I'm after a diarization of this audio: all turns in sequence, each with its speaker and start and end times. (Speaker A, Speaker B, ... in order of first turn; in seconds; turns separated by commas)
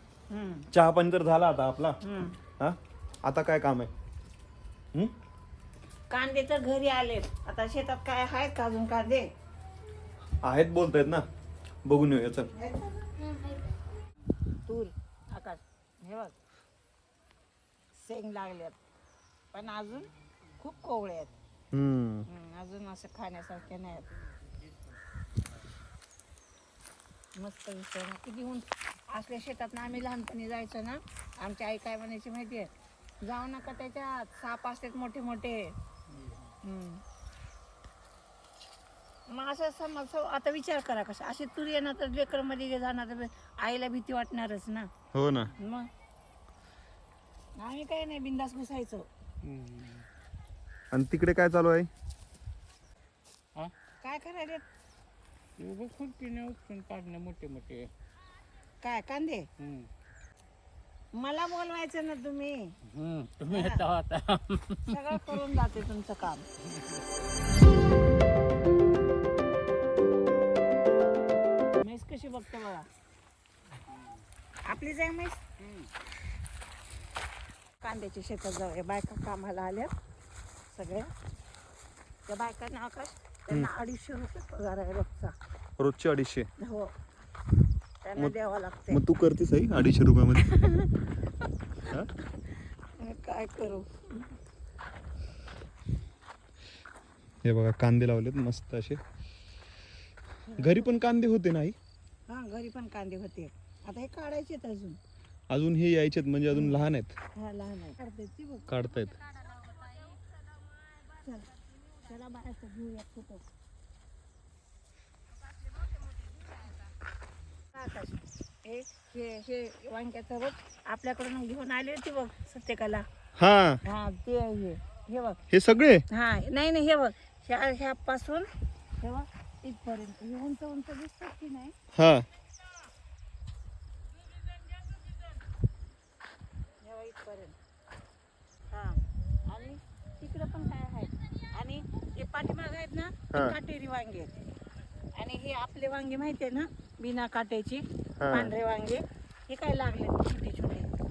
Speaker A: 0.3-0.7, Speaker B: 0.7-2.0, Speaker A: 2.0-2.4, Speaker B: 2.6-3.9, Speaker A: 6.1-9.3, Speaker B: 10.4-11.2, Speaker B: 11.8-12.5, Speaker A: 12.5-13.0, Speaker A: 14.7-16.3, Speaker A: 17.9-18.8, Speaker A: 19.5-21.3, Speaker B: 21.7-22.2, Speaker A: 22.3-24.1, Speaker A: 27.4-32.7, Speaker A: 33.2-35.8, Speaker A: 36.6-37.0, Speaker A: 39.3-44.9, Speaker B: 45.1-45.5, Speaker A: 45.6-45.9, Speaker A: 47.6-49.1, Speaker C: 49.4-50.1, Speaker B: 50.9-51.9, Speaker A: 54.0-54.6, Speaker C: 55.6-57.9, Speaker A: 58.8-59.5, Speaker A: 61.1-62.8, Speaker C: 62.9-65.0, Speaker A: 63.5-63.9, Speaker A: 64.9-66.5, Speaker A: 71.8-72.9, Speaker A: 74.7-75.5, Speaker A: 77.8-79.9, Speaker A: 80.7-81.1, Speaker A: 82.3-85.3, Speaker B: 85.8-86.5, Speaker A: 86.6-86.9, Speaker A: 88.0-89.0, Speaker B: 88.9-90.5, Speaker A: 90.5-90.9, Speaker A: 93.0-94.1, Speaker B: 97.4-99.0, Speaker A: 100.5-100.9, Speaker B: 100.6-101.8, Speaker A: 102.3-105.0, Speaker B: 105.5-107.2, Speaker A: 106.5-106.8, Speaker A: 107.4-108.7, Speaker B: 108.7-109.2, Speaker A: 111.2-111.5, Speaker A: 112.0-113.5, Speaker A: 117.7-123.1, Speaker B: 123.4-123.8, Speaker A: 123.8-125.4, Speaker B: 125.5-126.0, Speaker A: 126.1-128.5, Speaker A: 129.0-131.8, Speaker B: 131.9-132.2, Speaker A: 136.8-137.6, Speaker A: 138.7-144.3, Speaker A: 145.1-150.9, Speaker B: 148.2-148.5